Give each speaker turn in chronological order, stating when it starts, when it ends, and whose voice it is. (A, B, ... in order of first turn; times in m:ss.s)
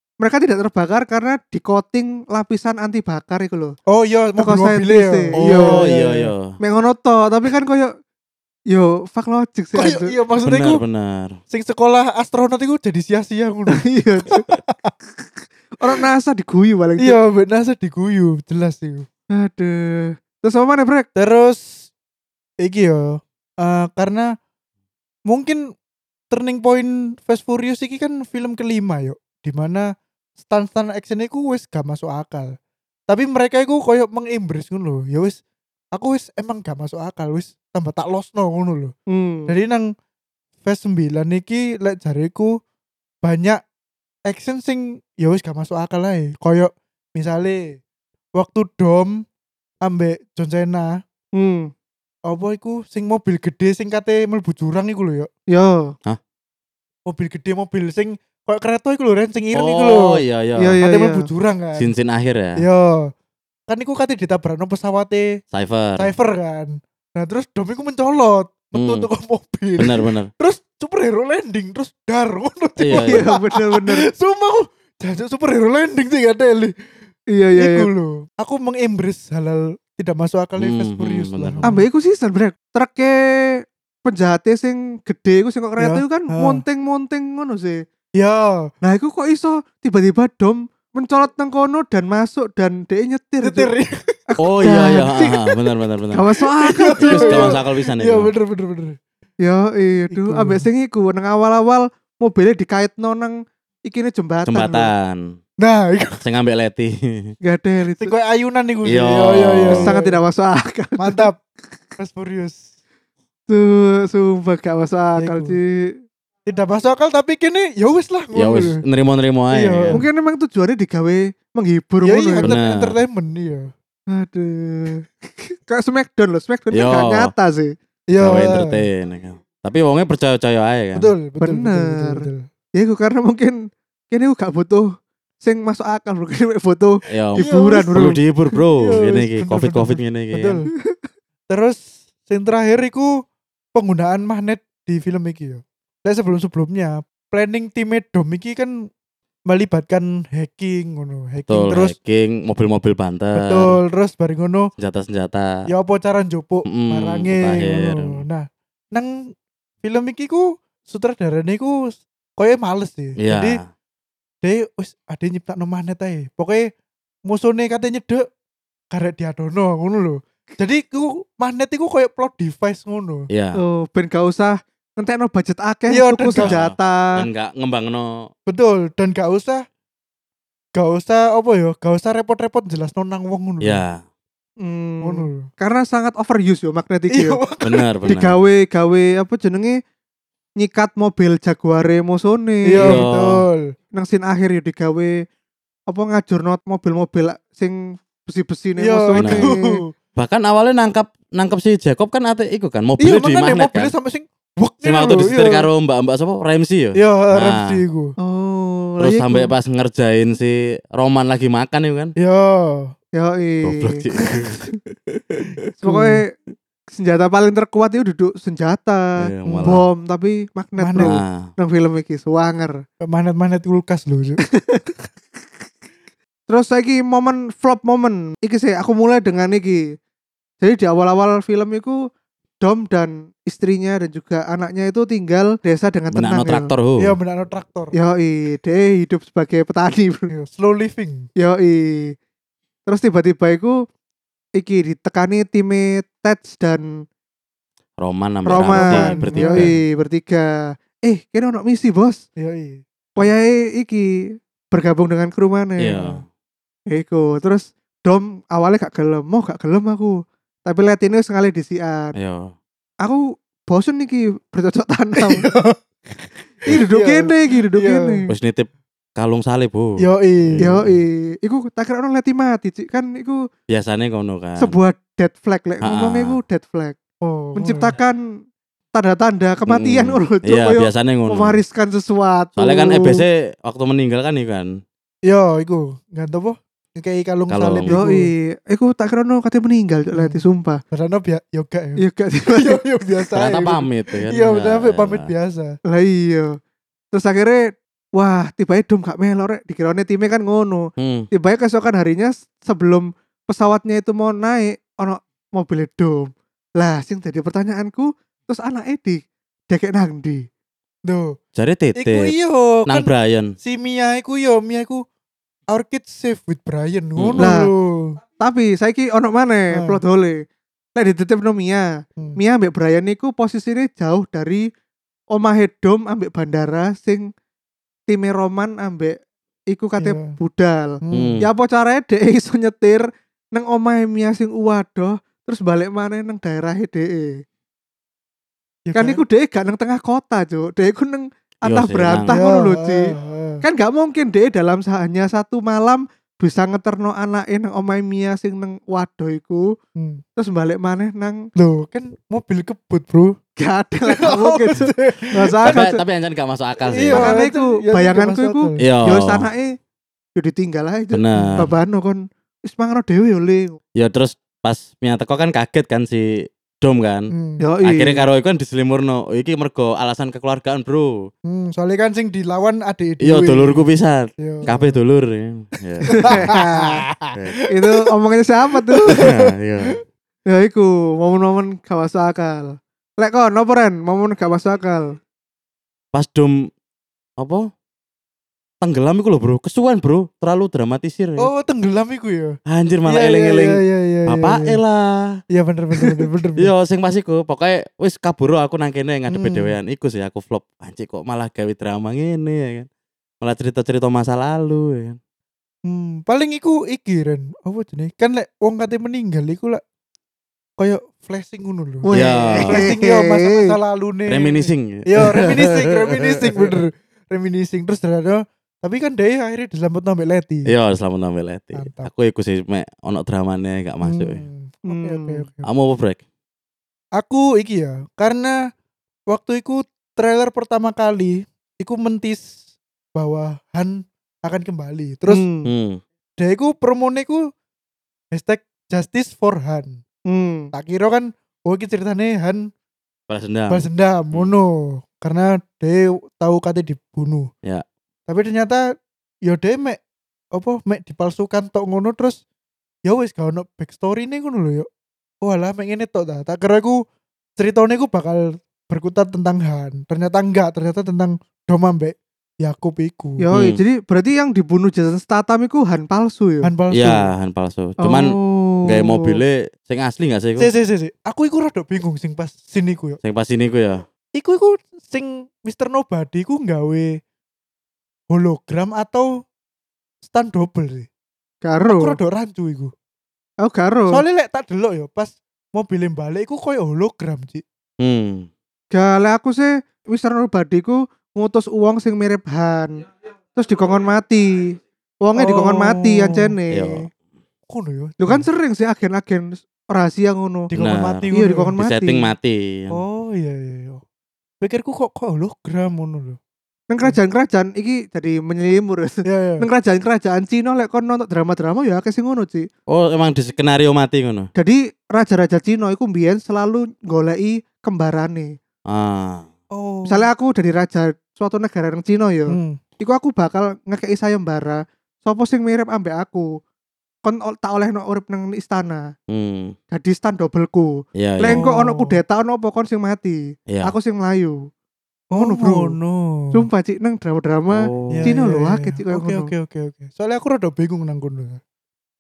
0:00.2-0:03.8 A
0:03.9-0:06.3 B
0:04.4-0:05.8 A
0:05.4-0:06.6 C
0:06.6-0:07.9 A
0:08.7-0:10.1 A
0:09.8-0:10.8 B
0:10.4-0:11.4 C
0:11.5-0:14.9 B
0:13.7-0:14.4 A
0:15.8-0:17.2 A
0:17.0-0:19.1 B
0:19.3-0:21.1 A
0:21.2-0:21.9 B
0:22.6-0:24.3 B
0:25.3-0:25.6 B
0:26.3-0:29.9 B
0:30.4-0:32.5 B
0:33.1-0:35.4 B
0:35.9-0:38.9 B
0:39.1-0:39.5 A
0:39.5-0:39.9 B
0:40.6-0:42.6 B
0:43.2-0:43.6 B
0:44.3-0:47.8 B
0:48.4-0:49.2 B
0:49.8-0:51.0 B
0:51.4-0:51.7 A
0:52.3-0:55.3 B
0:55.5-0:55.9 A
0:57.1-1:00.2 B
0:59.5-1:00.8 C
1:00.6-1:01.2 A
1:00.8-1:01.9 B
1:01.8-1:02.6 C
1:02.6-1:03.1 B
1:03.7-1:05.3 B
1:05.5-1:06.1 C
1:06.0-1:16.7 B
1:08.8-1:09.0 C
1:09.8-1:10.3 C
1:12.8-1:13.2 C
1:12.9-1:14.1 A
1:17.3-1:17.9 A
1:17.6-1:21.8 B
1:20.6-1:21.7 C
1:21.6-1:27.8 A
1:25.8-1:26.6 B
1:28.2-1:28.6 B
1:28.8-1:33.7 A
1:33.4-1:35.4 B
1:34.3-1:35.2 A
1:34.4-1:36.3 C
1:36.1-1:37.6 A
1:36.6-1:39.0 B
1:37.0-1:38.3 C
1:39.4-1:43.4 A
1:40.1-1:40.6 B
1:43.9-1:44.9 A
1:44.5-1:45.4 C
1:45.6-1:46.2 B
1:46.2-1:47.3 C
1:47.4-1:48.1 A
1:48.0-1:50.2 B
1:48.8-1:49.9 C
1:49.7-1:51.3 A
1:51.0-1:51.4 B
1:52.0-1:52.6 B
1:53.5-1:55.9 A
1:55.2-1:55.6 B
1:56.4-1:58.8 B
1:58.3-2:00.0 C
1:59.5-2:00.0 B
1:59.9-2:02.5 A
2:02.0-2:03.7 B
2:02.4-2:02.9 C
2:04.1-2:07.7 A
2:06.7-2:07.3 C
2:08.1-2:08.9 B
2:08.2-2:11.1 C
2:10.9-2:12.4 B
2:11.4-2:13.6 A
2:14.1-2:14.9 A
2:15.4-2:18.2 A
2:17.1-2:20.6 C
2:17.4-2:17.9 B
2:18.8-2:20.7 B
2:21.5-2:23.1 B
2:23.8-2:28.9 B
2:29.5-2:31.9 B
2:31.5-2:33.8 C
2:33.4-2:34.7 B
2:34.8-2:35.6 C
2:35.7-2:39.3 B
2:36.7-2:38.2 C
2:39.8-2:43.6 B
2:43.2-2:43.7 C
2:44.4-2:46.7 B
2:47.3-2:48.2 B
2:48.9-2:53.3 B
2:53.3-2:53.6 C
2:53.6-2:57.1 A
2:55.9-2:56.6 B
2:56.3-2:58.3 C
2:58.5-2:59.6 B
3:00.8-3:03.8 B
3:03.6-3:04.0 C
3:04.6-3:07.4 A
3:05.0-3:05.4 B
3:07.1-3:07.9 B
3:07.6-3:08.4 C
3:08.0-3:09.8 A
3:10.6-3:13.0 A
3:12.7-3:13.7 B
3:12.8-3:13.4 C
3:13.9-3:15.1 A
3:15.9-3:19.8 A
3:18.8-3:19.9 B
3:19.2-3:19.5 C
3:20.2-3:23.9 C
3:23.0-3:25.7 B
3:24.8-3:27.8 C
3:27.0-3:28.1 B
3:28.2-3:29.5 A
3:29.0-3:32.1 C
3:32.2-3:32.9 B
3:33.2-3:34.0 A
3:33.6-3:35.5 C
3:35.8-3:36.3 A
3:35.8-3:36.2 B
3:36.9-3:39.0 A
3:39.2-3:39.8 C
3:39.5-3:39.8 B
3:39.6-3:42.8 A
3:40.8-3:41.1 B
3:41.0-3:41.5 C
3:43.0-3:44.4 B
3:44.5-3:44.9 A
3:46.5-3:49.8 A
3:50.6-3:52.0 A
3:52.6-3:56.7 A
3:56.1-3:57.2 C
3:57.0-3:57.9 B
3:58.0-4:00.3 A
4:00.3-4:01.3 B
4:01.4-4:02.1 A
4:02.8-4:03.8 A
4:04.6-4:06.9 A
4:08.0-4:09.8 C
4:08.5-4:10.5 A
4:08.7-4:09.7 B
4:11.0-4:12.2 A
4:12.4-4:12.8 B
4:13.2-4:14.1 A
4:14.7-4:16.0 A
4:15.8-4:16.2 C
4:16.9-4:22.1 A
4:22.2-4:22.5 C
4:23.0-4:25.5 A
4:25.2-4:28.1 B
4:26.7-4:28.2 A
4:28.3-4:30.9 C
4:30.0-4:30.7 B
4:30.6-4:33.4 A
4:33.7-4:34.8 C
4:34.6-4:37.0 A
4:35.8-4:36.4 C
4:37.2-4:38.0 B
4:37.5-4:38.2 A
4:39.0-4:43.0 A
4:39.7-4:41.6 C
4:42.6-4:44.7 C
4:45.2-4:48.3 B
4:47.5-4:48.0 C
4:47.9-4:50.8 A
4:50.2-4:52.0 B
4:52.0-4:52.8 A
4:52.5-4:55.8 B
4:53.4-4:55.3 C
4:55.9-4:56.6 A
4:57.1-4:57.6 A
4:58.2-5:10.4 A
5:01.0-5:01.3 C
5:11.0-5:11.4 B
5:11.5-5:12.3 C
5:12.0-5:13.1 B
5:12.9-5:13.5 C
5:13.6-5:15.0 B
5:15.7-5:18.2 B
5:17.2-5:17.5 C
5:17.4-5:17.7 A
5:18.4-5:20.4 A
5:19.7-5:20.0 B
5:21.0-5:24.6 A
5:25.3-5:27.3 A
5:28.1-5:29.2 A
5:29.7-5:37.4 A
5:30.0-5:30.4 B
5:31.0-5:31.4 B
5:31.1-5:31.5 C
5:38.8-5:39.2 B
5:39.0-5:49.7 A
5:41.7-5:42.4 C
5:42.3-5:43.6 B
5:50.0-5:50.2 B
5:50.4-5:51.4 A
5:51.6-5:53.4 B
5:53.6-5:56.0 A
5:54.1-5:55.6 B
5:55.6-5:57.3 C
5:56.9-5:58.8 B
5:57.1-5:59.7 A
5:58.8-5:59.5 C
6:00.4-6:03.8 A
6:01.1-6:01.7 C
6:01.3-6:01.6 B
6:04.0-6:07.3 C
6:07.3-6:07.6 B
6:07.6-6:08.2 A
6:07.8-6:11.3 C
6:11.5-6:13.8 B
6:13.2-6:16.5 C
6:14.4-6:15.0 B
6:16.1-6:17.0 A
6:16.2-6:17.9 B
6:17.3-6:17.6 C
6:17.7-6:19.3 A
6:18.7-6:19.5 B
6:19.1-6:20.0 C
6:20.5-6:25.1 A
6:26.1-6:26.6 C
6:28.8-6:31.5 C
6:31.4-6:32.6 B
6:32.7-6:35.4 C
6:33.1-6:34.8 B
6:35.5-6:36.7 B
6:36.6-6:42.9 C
6:39.3-6:39.8 B
6:43.4-6:45.2 C
6:45.9-6:49.8 B
6:50.8-7:00.7 B
6:52.0-6:53.7 A
6:52.1-6:52.9 C
6:54.3-6:56.8 C
7:00.7-7:04.4 C
7:01.8-7:02.1 B
7:04.0-7:05.7 B
7:04.9-7:05.4 A
7:05.6-7:06.2 C
7:07.2-7:08.5 B
7:09.3-7:12.5 B
7:13.2-7:15.4 B
7:15.3-7:15.7 A
7:15.6-7:16.0 C
7:16.4-7:17.4 B
7:18.3-7:20.0 B
7:20.3-7:20.7 A
7:20.7-7:22.6 B
7:23.3-7:24.5 C
7:23.7-7:27.5 B
7:28.3-7:28.8 B
7:29.5-7:30.0 B
7:30.5-7:32.4 B
7:33.1-7:34.9 B
7:35.4-7:37.0 B
7:37.6-7:43.4 B
7:43.4-7:46.7 A
7:43.5-7:43.8 C
7:46.6-7:47.3 B
7:46.9-7:48.3 C
7:48.0-7:49.4 A
7:48.9-7:50.7 C
7:50.6-7:53.2 B
7:53.2-7:54.0 C
7:54.3-7:57.2 B
7:58.3-7:59.3 B
8:00.2-8:01.1 B
8:01.6-8:02.2 A
8:01.9-8:02.9 B
8:03.6-8:04.2 A
8:04.1-8:07.6 B
8:08.0-8:08.5 C
8:08.9-8:13.0 A
8:13.5-8:17.0 A
8:15.3-8:16.5 B
8:16.7-8:17.1 C
8:17.7-8:18.5 B
8:18.2-8:20.7 A
8:20.7-8:21.7 B
8:20.8-8:23.0 C
8:21.3-8:22.3 A
8:22.9-8:24.0 B
8:24.6-8:26.4 B
8:26.9-8:32.7 A
8:29.2-8:29.6 B
8:32.9-8:34.5 C
8:34.6-8:38.5 A
8:38.9-8:39.5 C
8:39.7-8:40.3 B
8:40.1-8:46.5 A
8:42.5-8:42.8 B
8:47.2-8:49.0 A
8:49.3-8:49.8 C
8:49.9-8:54.6 A
8:51.2-8:51.6 C
8:51.5-8:52.2 B
8:55.3-8:56.7 B
8:55.4-8:56.0 A
8:56.5-8:59.5 A
8:57.7-8:58.3 C
8:58.1-9:01.6 B